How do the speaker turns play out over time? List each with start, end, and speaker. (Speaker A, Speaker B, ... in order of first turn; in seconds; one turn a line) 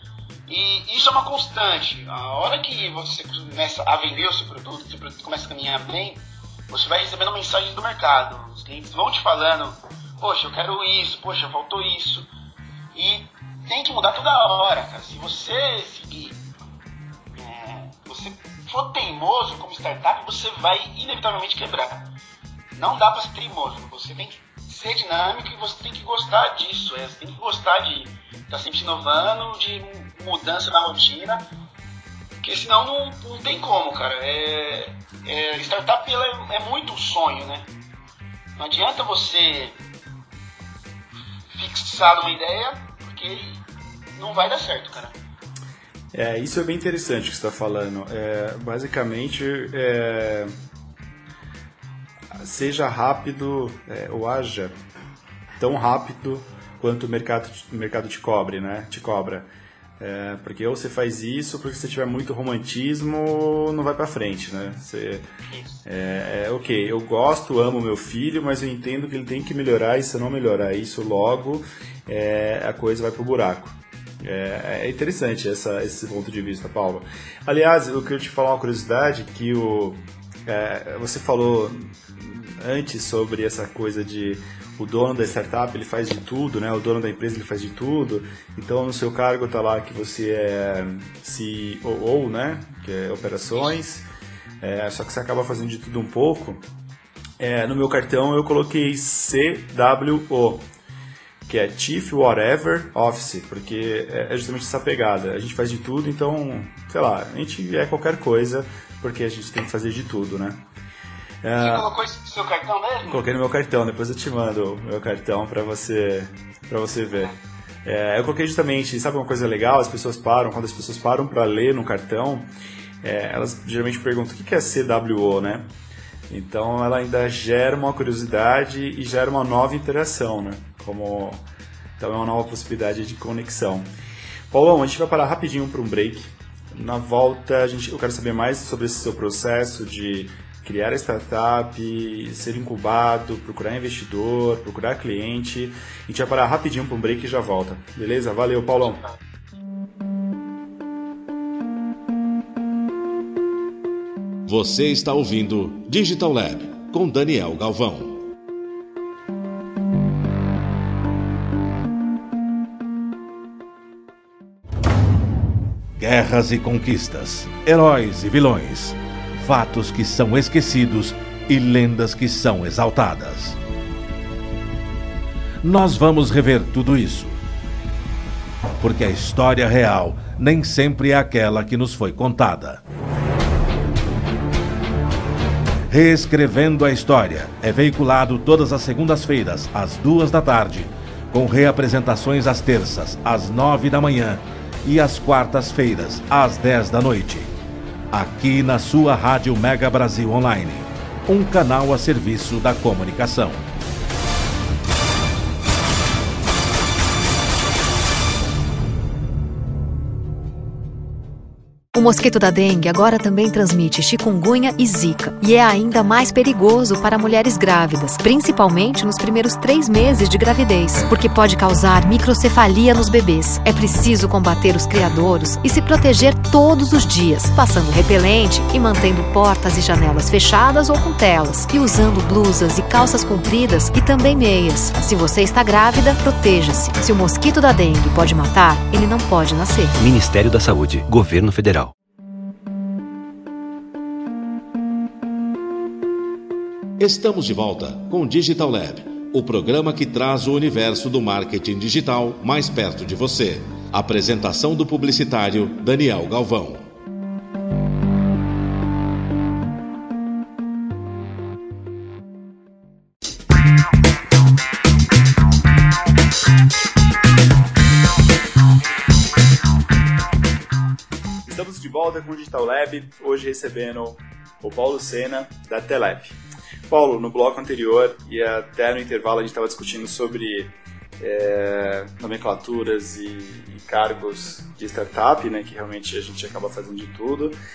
Speaker A: 0.5-12.3
Speaker A: 12.9-16.4
Speaker A: 17.3-22.1
Speaker A: 22.8-31.5
Speaker A: 32.4-37.7
Speaker A: 38.6-39.8
Speaker A: 41.5-43.6
Speaker A: 44.2-45.2
Speaker B: 46.1-50.5
Speaker B: 52.4-54.7
Speaker B: 55.6-65.2
Speaker A: 65.5-65.8
Speaker B: 65.8-94.1
Speaker B: 94.6-96.7
Speaker B: 97.4-100.7
Speaker B: 101.5-110.6
Speaker B: 111.4-111.9
Speaker A: 111.6-113.3
Speaker B: 113.1-122.5
Speaker B: 123.0-125.7
Speaker B: 126.3-131.4
Speaker B: 132.0-133.9
Speaker B: 134.5-149.1
Speaker C: 154.5-158.2
Speaker C: 166.0-173.6
Speaker C: 175.6-177.4
Speaker C: 178.8-182.8
Speaker C: 185.9-197.5
Speaker C: 198.1-203.6
Speaker D: 211.9-239.9
Speaker E: 240.0-241.9
Speaker C: 247.0-256.9
Speaker B: 271.4-276.4
Speaker B: 276.9-287.6